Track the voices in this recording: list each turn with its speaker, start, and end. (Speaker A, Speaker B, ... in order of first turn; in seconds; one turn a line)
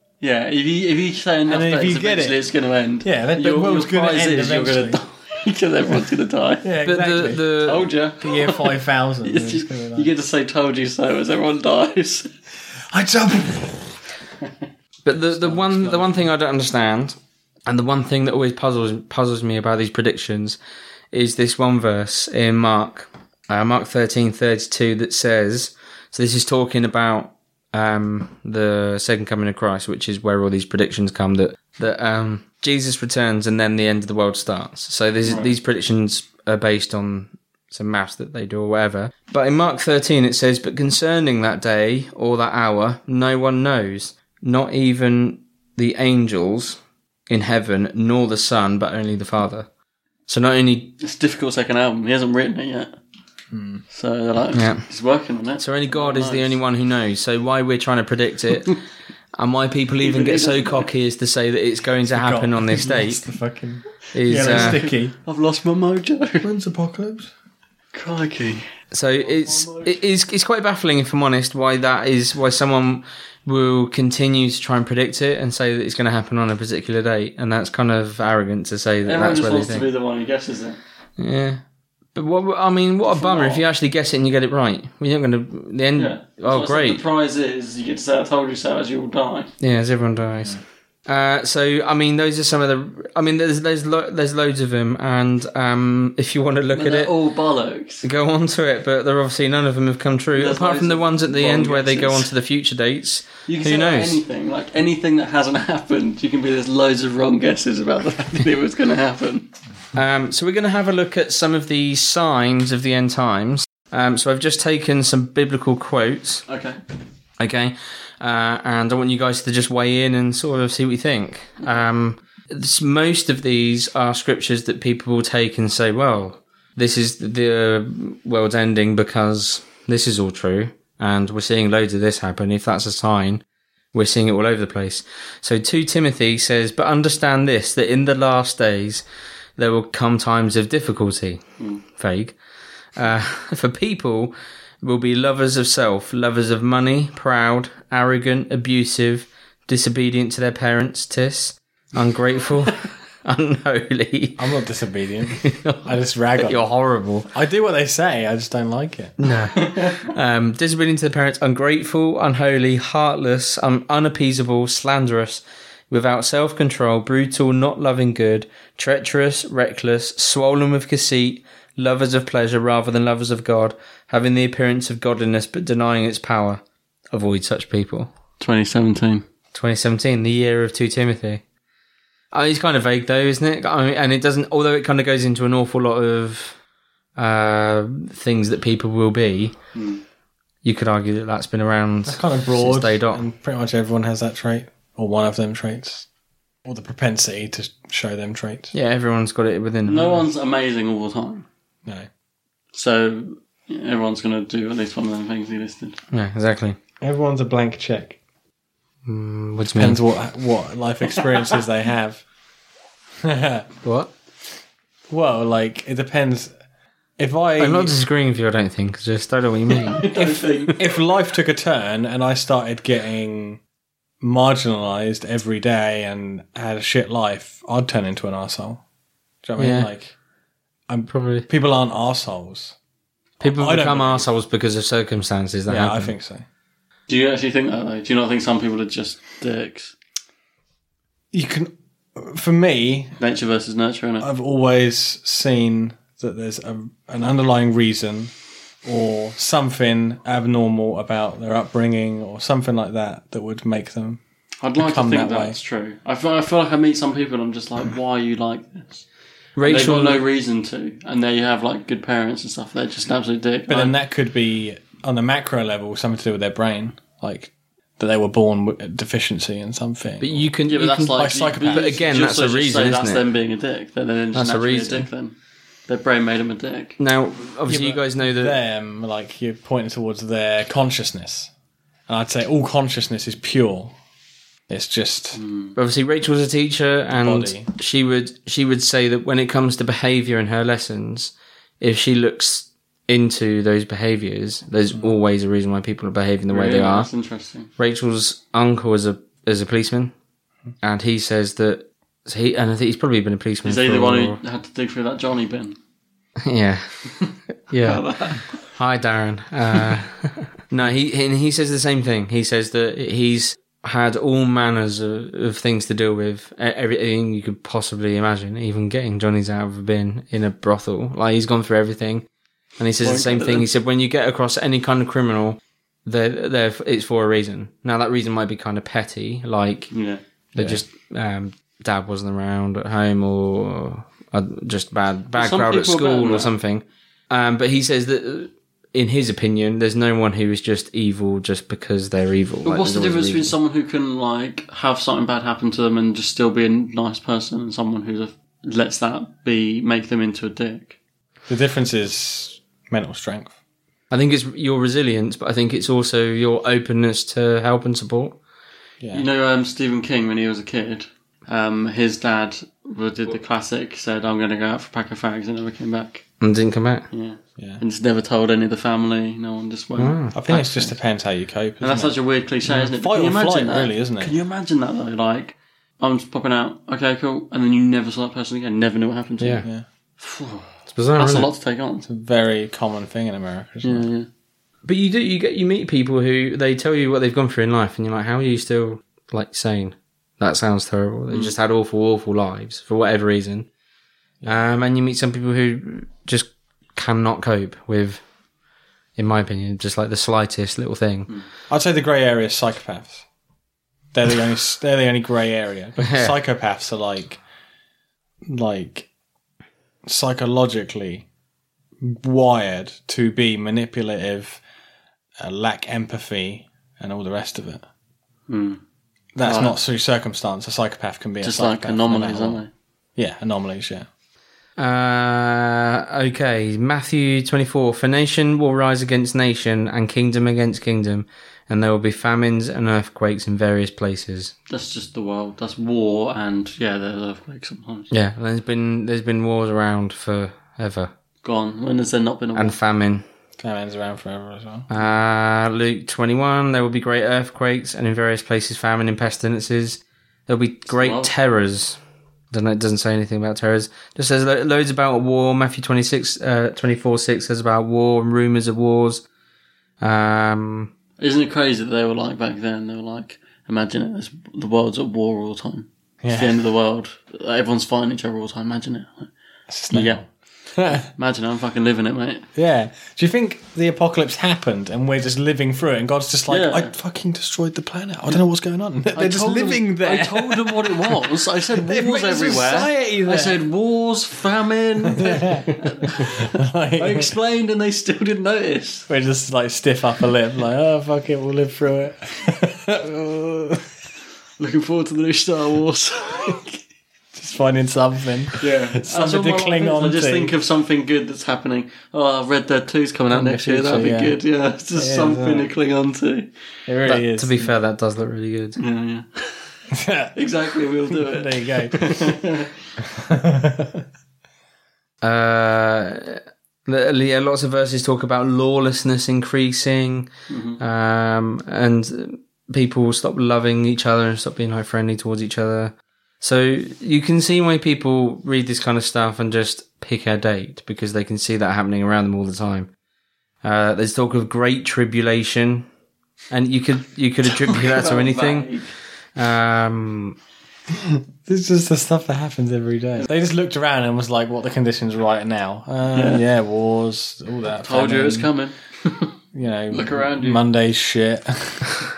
Speaker A: 0.2-6.7
Speaker B: 1.5-2.4
Speaker B: 3.0-5.0
Speaker B: 6.6-7.4
Speaker C: 6.8-7.9
Speaker A: 7.6-12.3
Speaker B: 8.2-10.1
Speaker B: 12.9-13.9
Speaker C: 15.1-20.6
Speaker B: 15.2-16.3
Speaker C: 21.1-49.7
Speaker A: 35.2-35.5
Speaker C: 50.3-50.9
Speaker A: 51.0-52.9
Speaker B: 53.5-53.8
Speaker A: 53.9-56.6
Speaker C: 54.5-54.9
Speaker C: 55.6-58.7
Speaker C: 59.4-63.2
Speaker A: 60.0-60.9
Speaker B: 62.1-65.1
Speaker C: 64.1-64.8
Speaker A: 64.4-66.5
Speaker B: 66.4-67.3
Speaker A: 67.9-68.7
Speaker C: 68.9-79.9
Speaker A: 69.2-70.0
Speaker A: 79.0-80.8
Speaker C: 81.2-81.6
Speaker C: 82.2-87.0
Speaker A: 83.1-83.6
Speaker A: 86.0-89.5
Speaker C: 89.6-97.1
Speaker A: 96.7-98.0
Speaker C: 98.0-104.2
Speaker A: 100.3-102.3
Speaker A: 103.5-109.5
Speaker C: 110.0-116.4
Speaker A: 116.5-116.8
Speaker C: 117.4-133.4
Speaker C: 133.9-139.0
Speaker C: 139.6-142.4
Speaker C: 143.0-154.4
Speaker B: 154.4-156.7
Speaker C: 155.4-155.9
Speaker C: 156.4-157.3
Speaker B: 157.3-159.1
Speaker C: 159.2-176.6
Speaker A: 159.6-160.0
Speaker C: 177.1-178.1
Speaker A: 178.4-179.2
Speaker C: 179.5-181.4
Speaker C: 182.3-186.6
Speaker C: 187.2-189.6
Speaker A: 189.8-190.0
Speaker C: 190.6-193.2
Speaker B: 192.1-196.1
Speaker B: 196.7-198.7
Speaker C: 198.7-200.3
Speaker A: 199.9-201.5
Speaker A: 202.7-206.0
Speaker C: 206.1-206.8
Speaker B: 207.0-208.2
Speaker C: 209.1-210.0
Speaker B: 209.8-212.2
Speaker B: 213.2-213.7
Speaker C: 213.8-214.1
Speaker B: 215.1-216.5
Speaker B: 217.2-217.9
Speaker C: 217.6-220.1
Speaker A: 219.9-220.8
Speaker B: 220.2-223.6
Speaker B: 224.2-228.8
Speaker B: 229.4-230.2
Speaker C: 229.6-229.9
Speaker B: 230.9-232.8
Speaker C: 231.1-231.5
Speaker C: 233.4-236.1
Speaker B: 233.4-234.3
Speaker B: 235.7-236.4
Speaker A: 237.1-239.9
Speaker B: 241.3-243.1
Speaker A: 243.2-244.3
Speaker B: 244.2-248.3
Speaker B: 248.8-254.2
Speaker A: 254.6-259.1
Speaker B: 254.8-255.6
Speaker C: 259.6-260.2
Speaker A: 259.6-263.9
Speaker B: 263.7-270.5
Speaker C: 270.2-273.2
Speaker A: 270.7-275.4
Speaker B: 271.1-272.0
Speaker C: 274.3-275.1
Speaker A: 275.9-277.0
Speaker C: 277.0-278.6
Speaker B: 277.7-281.5
Speaker B: 282.1-283.9
Speaker B: 284.7-285.4
Speaker A: 285.4-285.8
Speaker C: 285.8-297.1
Speaker B: 287.1-287.7
Speaker A: 296.5-297.7
Speaker C: 297.8-300.1
Speaker C: 300.8-304.4
Speaker A: 303.6-305.8
Speaker C: 306.4-306.9
Speaker C: 307.7-308.0
Speaker A: 307.8-308.4
Speaker C: 308.7-322.2
Speaker C: 322.8-329.9
Speaker A: 323.0-323.7
Speaker A: 329.9-330.2
Speaker C: 330.6-343.5
Speaker A: 335.3-336.5
Speaker A: 342.6-351.0
Speaker B: 351.5-353.6
Speaker C: 354.1-358.4
Speaker B: 359.0-359.3
Speaker A: 359.1-366.2
Speaker C: 366.4-367.1
Speaker A: 367.1-370.2
Speaker C: 370.0-370.9
Speaker B: 370.3-372.1
Speaker A: 371.8-379.7
Speaker B: 372.6-374.4
Speaker C: 379.4-379.6
Speaker A: 380.2-382.1
Speaker C: 380.9-381.5
Speaker B: 382.1-384.1
Speaker A: 383.8-384.3
Speaker C: 384.9-393.7
Speaker C: 394.4-398.2
Speaker C: 399.2-401.3
Speaker B: 401.7-403.2
Speaker B: 404.1-407.4
Speaker C: 406.0-406.3
Speaker B: 408.4-409.1
Speaker B: 410.1-411.2
Speaker B: 412.0-414.6
Speaker B: 415.4-417.9
Speaker A: 418.5-418.8
Speaker B: 419.4-422.6
Speaker A: 419.4-419.8
Speaker A: 421.4-422.7
Speaker B: 423.2-424.1
Speaker C: 424.8-434.5
Speaker A: 434.7-438.1
Speaker C: 438.1-441.1
Speaker A: 441.4-442.8
Speaker C: 442.6-443.2
Speaker B: 443.6-444.9
Speaker C: 444.9-452.0
Speaker A: 450.9-451.3
Speaker C: 452.5-459.2
Speaker C: 460.0-460.9
Speaker A: 461.2-469.3
Speaker B: 466.2-466.5
Speaker B: 469.7-470.2
Speaker A: 469.9-470.2
Speaker B: 470.8-471.1
Speaker A: 471.1-472.4
Speaker B: 472.6-483.6
Speaker A: 476.5-476.9
Speaker A: 479.1-489.1
Speaker B: 485.1-487.3
Speaker B: 489.1-493.8
Speaker A: 494.6-496.6
Speaker B: 497.3-500.5
Speaker A: 498.6-506.5
Speaker B: 503.3-504.4
Speaker B: 504.9-505.7
Speaker B: 506.9-507.7
Speaker C: 507.1-508.8
Speaker A: 508.8-509.4
Speaker B: 509.9-510.4
Speaker A: 510.4-512.7
Speaker B: 511.1-512.3
Speaker B: 513.0-514.0
Speaker C: 515.2-520.3
Speaker A: 520.5-520.8
Speaker C: 520.8-532.9
Speaker C: 533.6-535.9
Speaker C: 536.5-538.7
Speaker A: 537.5-538.9
Speaker C: 539.4-540.4
Speaker B: 540.9-548.5
Speaker A: 546.1-546.4
Speaker A: 547.8-549.3
Speaker B: 549.5-552.0
Speaker A: 549.9-550.6